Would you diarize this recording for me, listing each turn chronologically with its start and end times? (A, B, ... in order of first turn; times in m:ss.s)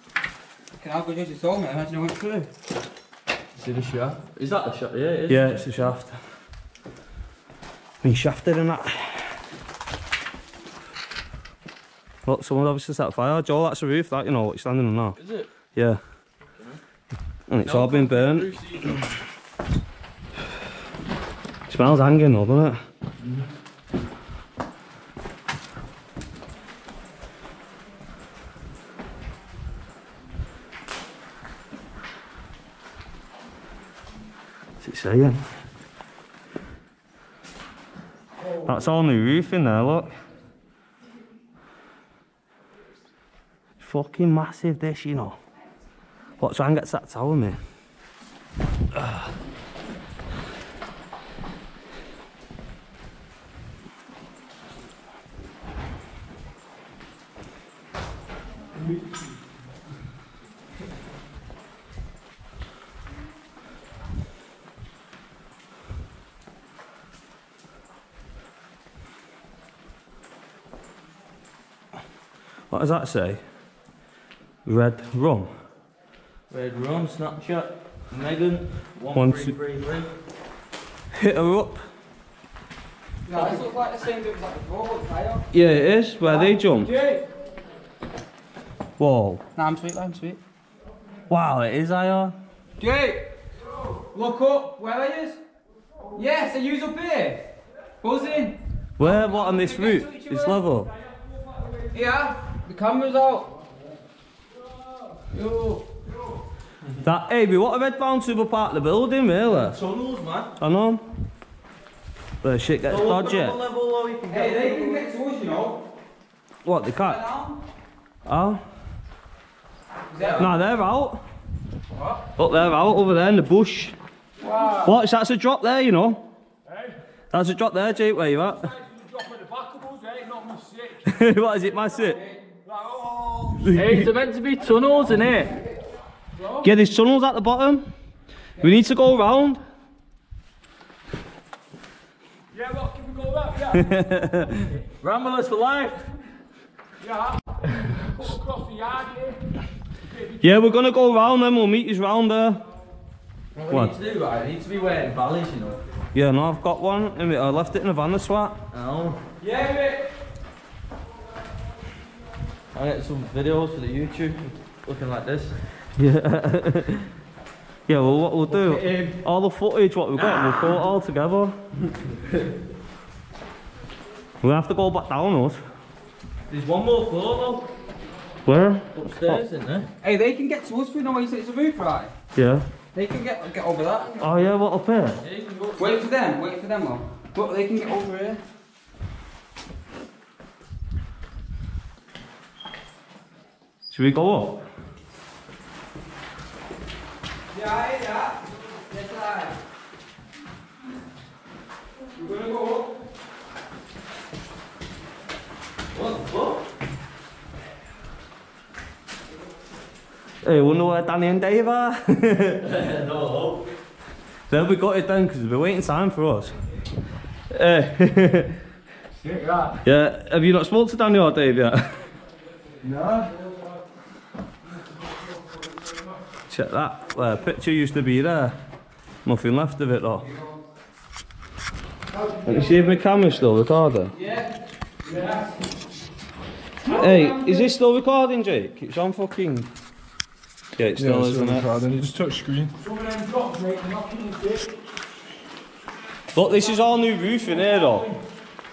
0:00.8-0:02.5 A
0:03.6-0:05.7 B
0:05.3-0:06.2 C
0:08.0-0:09.2 C
0:12.3-0:15.2 C
0:15.2-0:15.5 B
0:15.8-0:16.0 C
0:16.5-0:16.8 B
0:17.5-0:18.6 C
0:17.6-0:19.1 B
0:21.7-0:22.8 C
0:23.2-0:23.5 B
0:34.8-0:35.4 C
0:38.6-0:40.1 C
0:43.8-0:45.4 C
0:46.4-0:47.6 C
0:49.0-0:49.3 C
1:12.7-1:13.4 C
1:14.7-1:15.5 C
1:16.5-1:20.1 B
1:19.1-1:19.5 C
1:21.1-1:21.8 C
1:23.3-1:25.4 A
1:25.5-1:26.9 C
1:26.3-1:27.2 D
1:29.0-1:29.4 C
1:29.6-1:30.4 A
1:31.3-1:32.4 C
1:32.8-1:33.3 A
1:34.1-1:35.4 A
1:36.2-1:37.5 A
1:38.0-1:40.6 A
1:39.0-1:40.9 C
1:41.9-1:43.5 A
1:45.4-1:45.8 A
1:47.0-1:49.8 C
1:49.5-1:50.5 B
1:50.6-1:51.0 C
1:52.4-1:53.6 C
1:52.9-1:55.0 B
1:54.3-1:55.8 A
1:56.6-1:57.2 C
1:56.9-1:57.6 A
1:58.3-1:58.6 C
2:00.1-2:00.5 A
2:00.2-2:00.5 B
2:00.4-2:01.2 C
2:02.4-2:04.0 C
2:04.4-2:05.0 A
2:04.8-2:06.2 C
2:06.6-2:07.0 D
2:07.3-2:08.7 C
2:08.1-2:11.1 D
2:11.1-2:12.2 C
2:12.0-2:12.4 A
2:12.6-2:14.0 D
2:13.6-2:14.1 C
2:13.7-2:15.5 B
2:16.4-2:16.6 E
2:16.6-2:17.8 C
2:18.6-2:19.6 C
2:22.5-2:24.8 D
2:23.9-2:24.5 C
2:25.0-2:26.1 B
2:27.0-2:31.0 D
2:30.4-2:32.6 C
2:33.6-2:35.8 B
2:33.7-2:34.0 C
2:36.1-2:38.6 C
2:38.7-2:39.2 B
2:39.4-2:40.1 A
2:42.7-2:45.6 B
2:46.0-2:47.1 C
2:47.9-2:51.6 C
2:48.5-2:49.2 B
2:50.2-2:50.8 B
2:54.4-2:55.6 C
2:56.5-2:57.7 B
2:58.5-2:59.4 C
2:58.9-2:59.9 B
3:00.0-3:02.1 A
3:02.4-3:02.7 C
3:02.9-3:04.5 A
3:04.2-3:05.2 C
3:05.2-3:06.0 B
3:05.8-3:08.4 A
3:13.9-3:14.6 C
3:17.5-3:19.6 A
3:22.2-3:22.9 A
3:25.9-3:26.6 B
3:30.4-3:32.6 C
3:32.6-3:33.7 B
3:34.5-3:36.6 C
3:37.5-3:38.6 C
3:39.1-3:39.8 D
3:39.8-3:42.0 C
3:42.8-3:43.3 D
3:46.5-3:48.6 C
3:49.2-3:50.3 C
3:50.2-3:50.5 A
3:52.2-3:53.0 D
3:52.4-3:54.1 C
3:54.1-3:54.5 A
3:55.1-3:55.4 D
3:56.8-3:57.7 A
3:56.9-3:59.7 C
4:00.8-4:01.7 C
4:01.0-4:02.8 E
4:02.8-4:04.8 D
4:06.3-4:08.1 C
4:06.6-4:08.2 D